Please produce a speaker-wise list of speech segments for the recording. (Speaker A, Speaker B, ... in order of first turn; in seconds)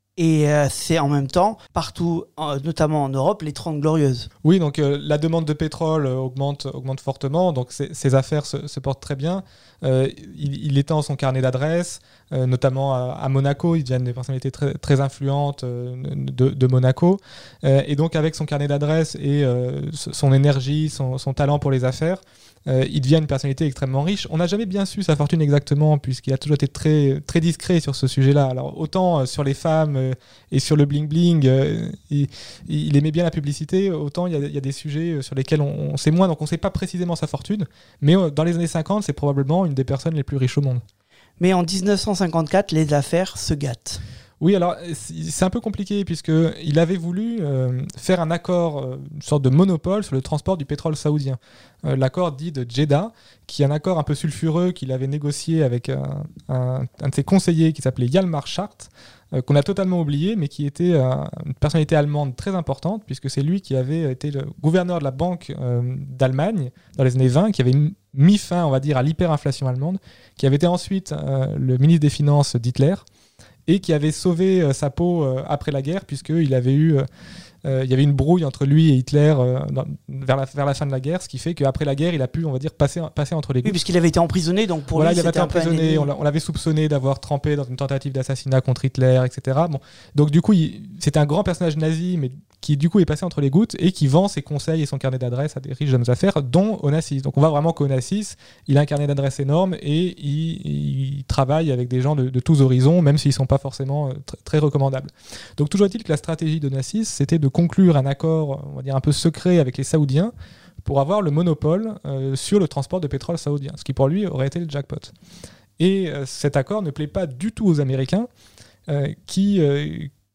Speaker A: 0.2-4.3, 41.4-44.0, 83.6-86.1
Speaker B: 4.4-40.8, 44.4-73.0, 73.7-77.1, 77.6-83.8, 84.9-110.3, 110.8-115.1, 115.8-118.3, 118.9-120.1